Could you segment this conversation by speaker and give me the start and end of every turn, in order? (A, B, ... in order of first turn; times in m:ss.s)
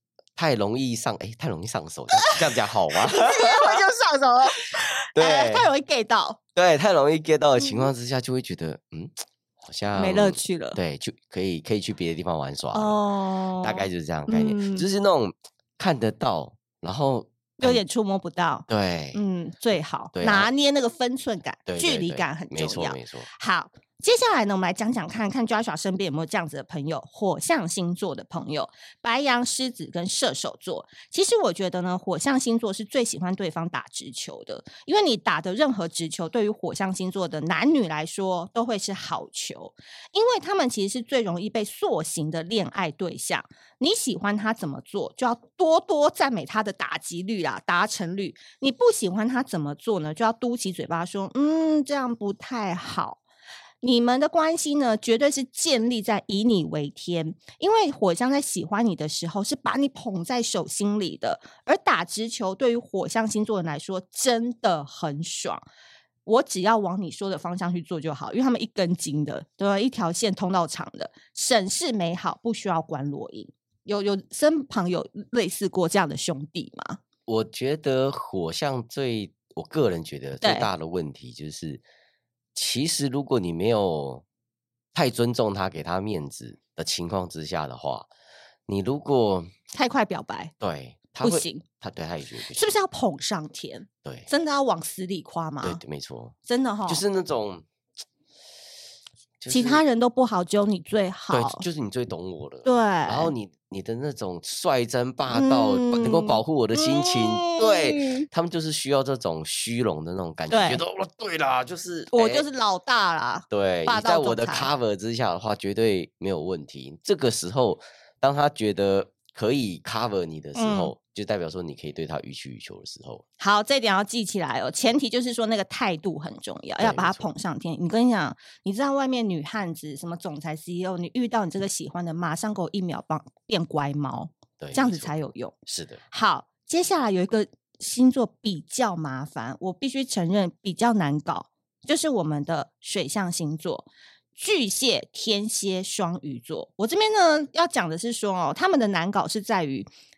0:00.4-0:03.8 A
0:03.0-0:06.4 B
0:05.1-0:05.7 A
0:06.5-0:13.0 A
0:07.6-0:07.9 B
0:09.9-0:10.8 B
0:12.7-0:14.8 B
0:13.6-0:17.8 A
0:17.6-0:53.2 B
0:18.7-0:19.2 A
0:20.1-0:20.5 A
0:21.7-0:23.3 A
0:53.8-1:05.6 B
1:06.2-1:17.0 B
1:17.3-1:21.8 A
1:20.4-1:20.7 B
1:22.5-1:24.2 A
1:24.9-1:28.1 A
1:28.7-1:29.5 A
1:29.7-1:30.5 B
1:30.6-1:32.7 A
1:31.2-1:31.6 B
1:32.5-1:35.8 B
1:35.6-1:36.3 A
1:36.5-1:37.0 B
1:36.9-1:37.6 A
1:39.4-1:39.8 A
1:39.5-1:41.6 B
1:41.3-1:52.4 A
1:42.6-1:43.3 B
1:45.3-1:48.3 B
1:50.5-1:50.8 B
1:52.1-1:54.7 B
1:53.5-2:03.2 A
2:00.5-2:00.9 B
2:03.4-2:15.5 B
2:06.8-2:07.2 A
2:14.6-2:15.1 A
2:15.7-2:16.0 A
2:16.1-2:29.9 B